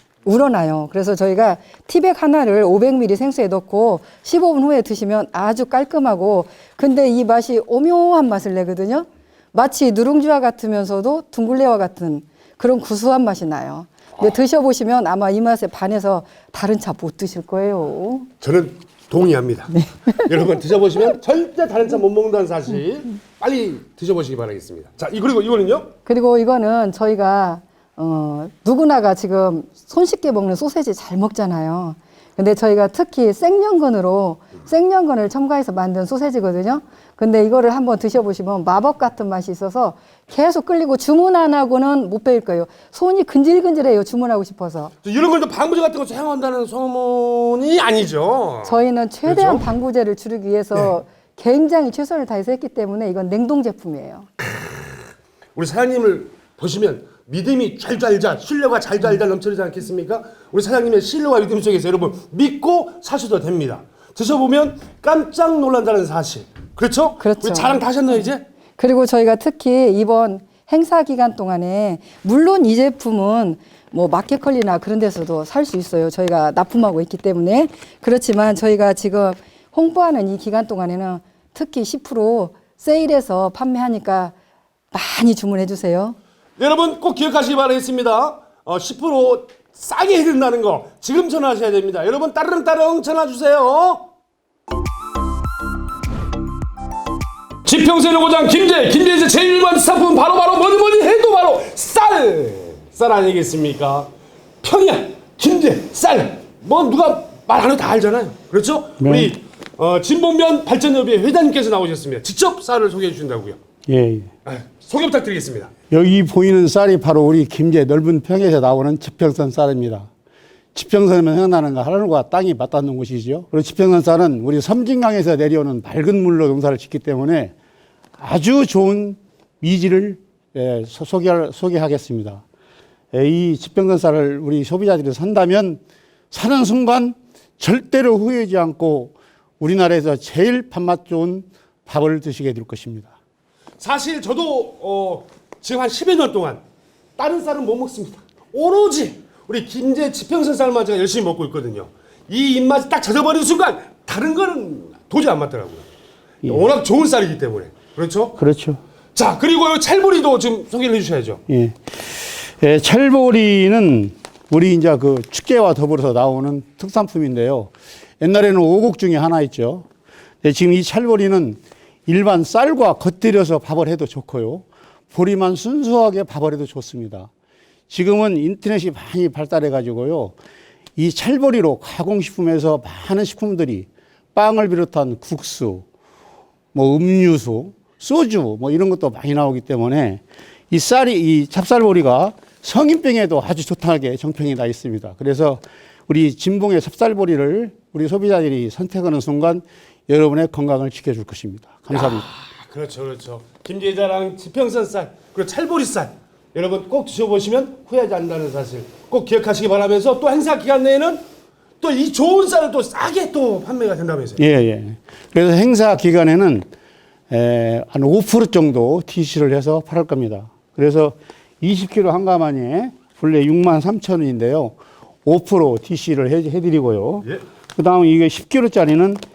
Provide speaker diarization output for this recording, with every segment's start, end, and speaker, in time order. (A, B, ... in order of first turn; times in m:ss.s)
0:00.2-0:18.3 A
0:18.4-0:19.7 B
0:19.7-0:20.3 A
0:20.3-0:25.9 B
0:26.0-0:44.9 A
0:45.0-0:49.6 B
0:48.6-0:54.3 A
0:55.6-1:08.4 B
1:07.2-1:24.3 A
1:24.9-1:26.2 A
1:26.6-1:34.1 B
1:37.6-1:44.1 B
1:44.6-1:53.6 B
1:49.0-1:49.3 C
1:53.9-1:54.3 C
1:54.5-1:55.7 B
1:55.9-2:00.1 C
2:00.7-2:07.5 C
2:08.2-2:12.4 C
2:13.1-2:23.1 C
2:23.8-2:26.6 B
2:27.2-2:35.9 B
2:36.4-2:36.7 C
2:36.4-2:38.4 B
2:38.4-2:38.8 C
2:39.2-2:41.4 B
2:41.5-2:49.9 C
2:50.4-2:57.3 C
2:57.9-3:00.4 C
3:01.0-3:05.8 C
3:06.7-3:22.3 C
3:21.9-3:31.2 B
3:31.8-3:34.4 B
3:34.4-3:36.7 C
3:37.3-3:49.2 C